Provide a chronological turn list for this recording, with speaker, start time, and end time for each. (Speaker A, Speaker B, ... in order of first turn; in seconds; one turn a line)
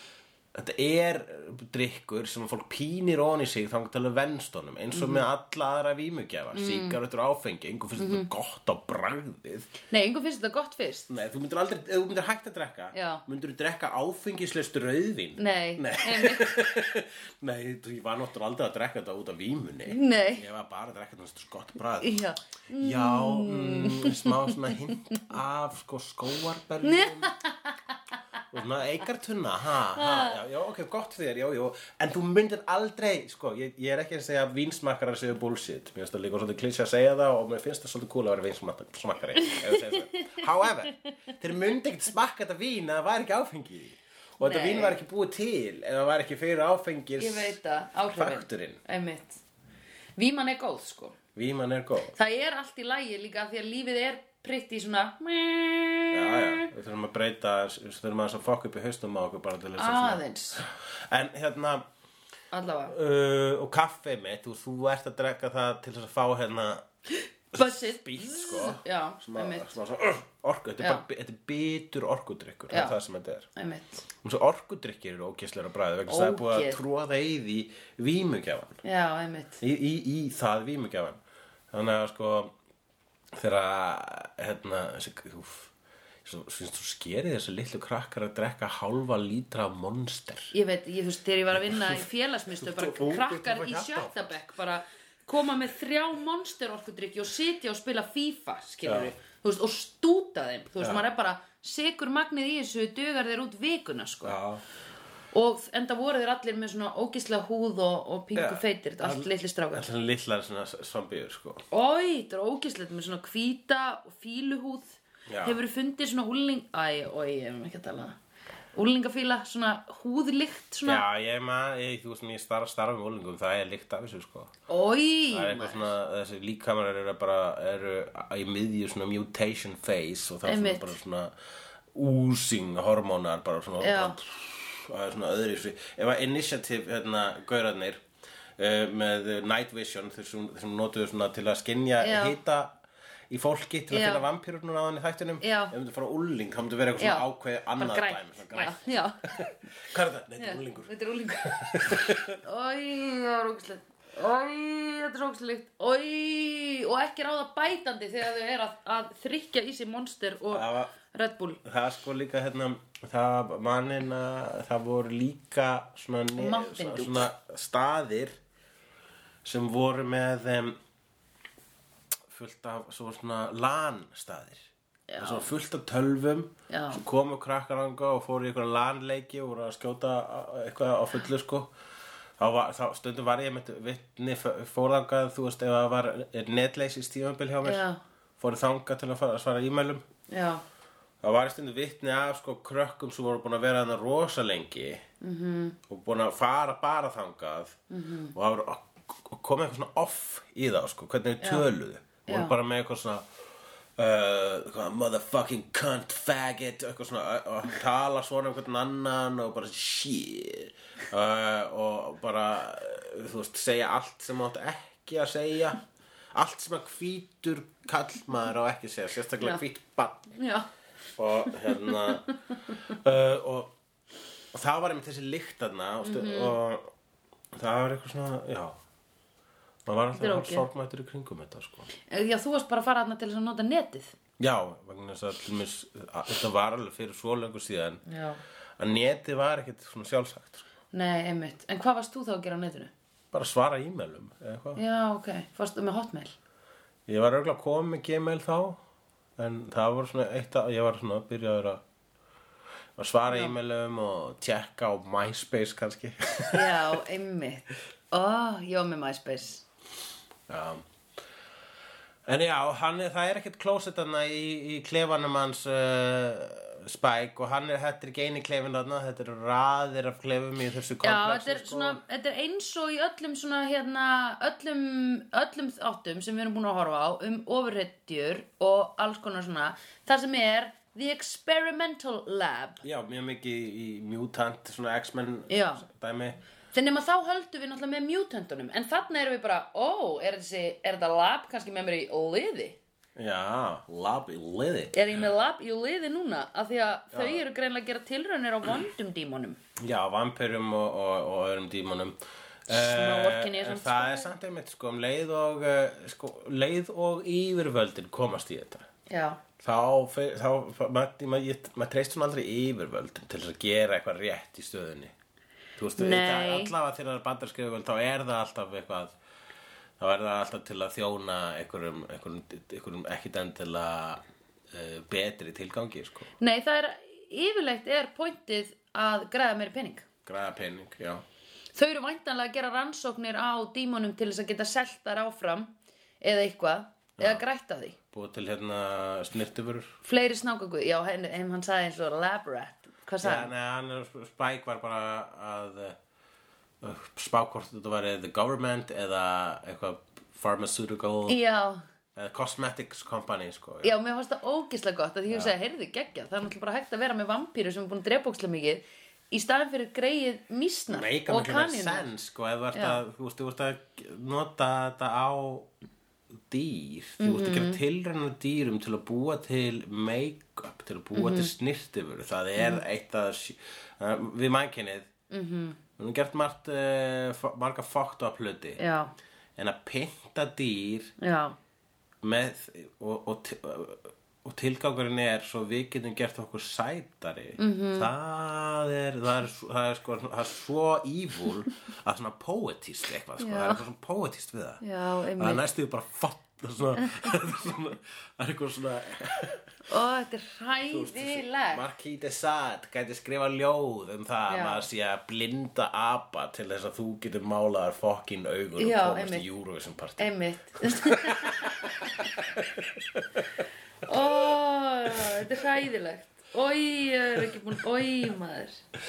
Speaker A: 0.5-9.7
Speaker B: 4.9-5.2
Speaker B: 6.5-7.0
Speaker B: 8.0-8.3
Speaker B: 9.9-11.1
Speaker A: 11.1-22.2
Speaker B: 12.9-13.2
Speaker B: 15.4-16.6
Speaker B: 19.9-20.4
Speaker B: 22.0-25.2
Speaker A: 22.8-27.3
Speaker B: 26.8-27.8
Speaker A: 28.5-47.6
Speaker B: 29.9-30.4
Speaker B: 39.4-40.4
Speaker B: 44.4-45.0
Speaker B: 47.2-49.4
Speaker A: 48.1-48.8
Speaker B: 50.2-51.1
Speaker A: 51.3-52.1
Speaker B: 52.1-56.7
Speaker A: 56.1-61.8
Speaker B: 59.8-60.6
Speaker B: 62.5-62.9
Speaker A: 62.9-66.8
Speaker B: 67.2-69.7
Speaker A: 67.5-73.5
Speaker B: 72.7-73.0
Speaker B: 73.5-74.0
Speaker A: 74.2-78.8
Speaker B: 76.1-76.8
Speaker B: 78.8-79.6
Speaker A: 79.6-81.2
Speaker A: 81.7-82.5
Speaker A: 83.3-85.7
Speaker A: 86.2-90.5
Speaker B: 90.5-104.4
Speaker A: 91.5-94.4
Speaker A: 98.8-99.1
Speaker A: 100.8-101.0
Speaker A: 104.2-104.6
Speaker B: 105.3-109.9
Speaker A: 108.3-111.6
Speaker B: 111.7-118.2
Speaker A: 115.3-115.6
Speaker B: 118.7-121.0
Speaker A: 120.8-124.5
Speaker B: 124.7-125.9
Speaker A: 125.3-131.3
Speaker B: 130.4-131.0
Speaker A: 131.9-138.0
Speaker B: 133.8-134.2
Speaker A: 138.6-142.8
Speaker B: 142.0-142.3
Speaker A: 143.3-152.4
Speaker B: 143.9-144.2
Speaker B: 145.4-145.7
Speaker B: 147.0-147.2
Speaker B: 147.8-149.5
Speaker B: 150.4-161.6
Speaker A: 160.5-160.9
Speaker A: 161.6-168.4
Speaker B: 166.4-167.3
Speaker A: 169.4-170.8
Speaker A: 172.3-174.6
Speaker B: 175.1-175.5
Speaker A: 175.2-181.7
Speaker B: 176.7-177.0
Speaker A: 182.4-187.8
Speaker B: 187.6-188.0
Speaker A: 188.4-190.0
Speaker B: 190.3-190.6
Speaker A: 191.2-195.0
Speaker B: 195.2-195.8
Speaker A: 195.9-197.8
Speaker B: 197.9-198.3
Speaker A: 198.3-203.3
Speaker B: 201.4-201.7
Speaker B: 202.3-202.5
Speaker A: 204.0-215.8
Speaker A: 216.3-220.3
Speaker B: 220.3-220.7
Speaker A: 221.2-222.2
Speaker B: 221.5-222.3
Speaker A: 222.8-223.7
Speaker A: 224.5-226.9
Speaker B: 226.0-226.5
Speaker A: 227.5-228.8
Speaker A: 229.8-231.9
Speaker B: 230.1-230.7
Speaker B: 232.1-234.1
Speaker A: 234.4-238.0
Speaker B: 238.1-238.4
Speaker A: 238.8-240.7
Speaker B: 240.9-242.9
Speaker A: 243.3-244.8
Speaker B: 244.8-246.3
Speaker A: 247.1-248.8
Speaker A: 249.4-251.8
Speaker A: 252.9-257.0
Speaker B: 253.3-253.5
Speaker B: 256.5-259.6
Speaker A: 260.5-260.8
Speaker A: 262.2-272.0
Speaker B: 271.0-282.8
Speaker A: 282.8-286.4
Speaker B: 285.5-285.8
Speaker B: 286.7-292.8
Speaker A: 293.1-295.1
Speaker B: 294.9-299.6
Speaker A: 297.1-297.4
Speaker A: 299.8-302.1
Speaker A: 302.7-308.8
Speaker B: 302.7-304.3
Speaker B: 309.1-309.4
Speaker A: 309.6-315.1
Speaker A: 315.8-319.1
Speaker B: 316.0-316.7
Speaker A: 320.0-326.3
Speaker B: 326.4-330.1
Speaker A: 330.2-331.2
Speaker B: 331.7-338.0
Speaker A: 337.2-337.4
Speaker A: 338.1-339.9
Speaker B: 340.0-343.5
Speaker A: 343.2-346.0
Speaker A: 346.8-351.4
Speaker B: 351.3-351.8
Speaker A: 352.1-353.9
Speaker B: 353.8-362.1
Speaker A: 360.9-365.7
Speaker B: 362.7-363.0
Speaker A: 366.5-375.1
Speaker B: 367.2-367.8
Speaker B: 371.1-371.5
Speaker B: 372.6-372.8
Speaker B: 375.3-375.8
Speaker A: 376.0-378.8
Speaker B: 378.8-379.1
Speaker A: 379.6-381.1
Speaker B: 381.2-381.6
Speaker A: 382.2-394.8
Speaker B: 387.6-388.1
Speaker B: 393.4-393.8
Speaker B: 394.8-395.6
Speaker A: 395.3-399.6
Speaker B: 397.0-397.3
Speaker B: 399.9-401.9
Speaker A: 400.9-413.6
Speaker B: 404.5-404.8
Speaker B: 408.8-409.4
Speaker B: 410.2-412.2
Speaker B: 414.0-418.8